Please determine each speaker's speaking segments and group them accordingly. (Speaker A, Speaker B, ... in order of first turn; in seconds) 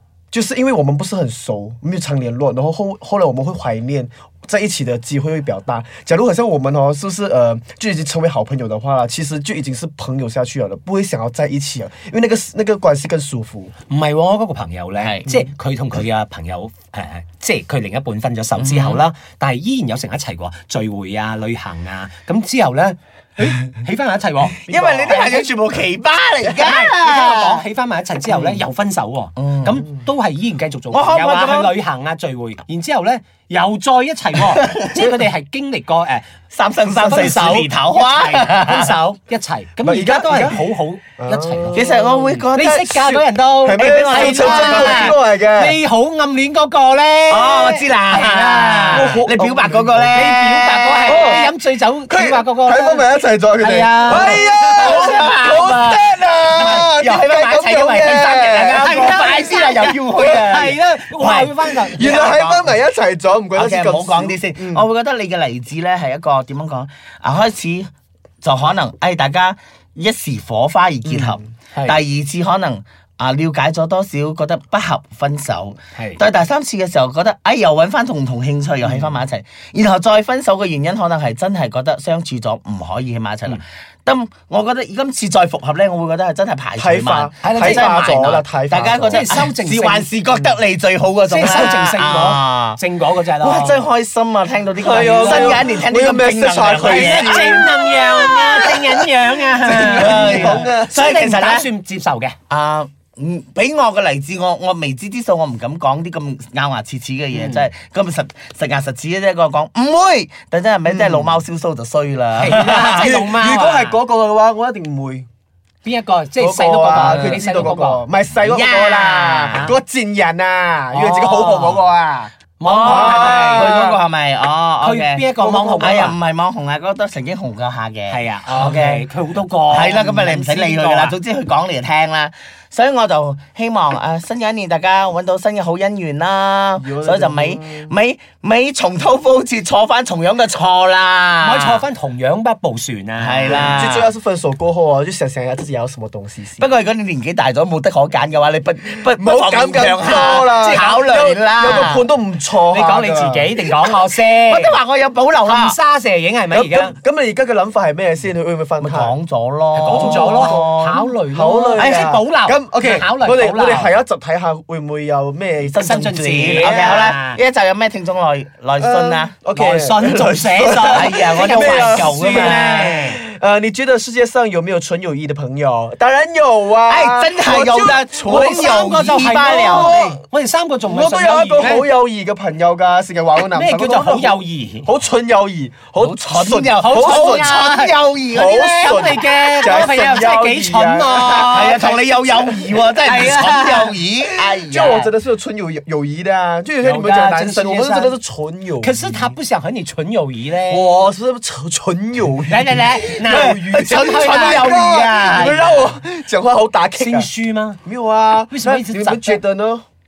Speaker A: 0.3-13.7, 39.8-40.6, 41.2-42.4, 43.0-45.8, 48.9-50.3, 51.0-51.5, 52.1-58.8, 61.9-64.9, 71.1-71.4, 86.8-89.3, 94.8-97.8, 99.6-101.0, 110.9-111.3, 112.7-115.3, 116.4-123.9, 125.4-126.1, 136.8-137.9, 143.5-146.7, 149.1-153.7, 156.5-159.2, 159.9-160.6, 161.3-165.8, 166.6-167.0, 168.8-180.2, 180.9-187.6, 188.3-191.7, 194.3-199.3, 200.7-207.3, 207.8-209.8
Speaker B: 13.9-25.5, 26.5-36.2, 36.9-41.9, 42.5-49.3, 50.1-55.8, 58.1-62.6, 76.0-76.2, 87.4-88.4, 89.0-90.1, 91.3-93.8, 95.2-95.6, 96.7-102.4, 107.3-107.7, 112.4-114.0, 115.8-118.0, 120.9-121.8, 122.6-124.0, 124.8-126.2, 128.1-131.2, 141.4-143.8, 150.6-151.1, 152.7-154.8, 155.4-156.9, 159.7-163.9, 165.8-167.4, 169.5-173.2, 178.3-181.9, 183.5-184.9, 186.8-192.0, 193.0-193.9, 196.8-198.2, 198.8-200.9, 202.5-204.7, 207.0-207.8, 208.5-209.4
Speaker C: 15.0-15.5, 18.6-19.0, 24.6-27.6, 28.3-28.6, 29.4-29.9, 30.9-31.8, 34.4-35.2, 36.5-39.0, 41.7-43.0, 43.8-45.2, 47.3-51.5, 54.1-62.6, 63.6-67.9, 68.4-92.8, 93.4-99.0, 99.7-101.7, 102.5-113.1, 117.0-117.5, 118.4-119.7, 122.6-129.0, 129.7-141.8, 143.2-144.1, 146.6-152.1, 154.2-155.8, 158.8-161.2, 161.8-162.1, 165.7-169.3, 170.2-173.1, 176.9-180.2, 186.0-189.6, 191.1-195.1, 203.2-205.9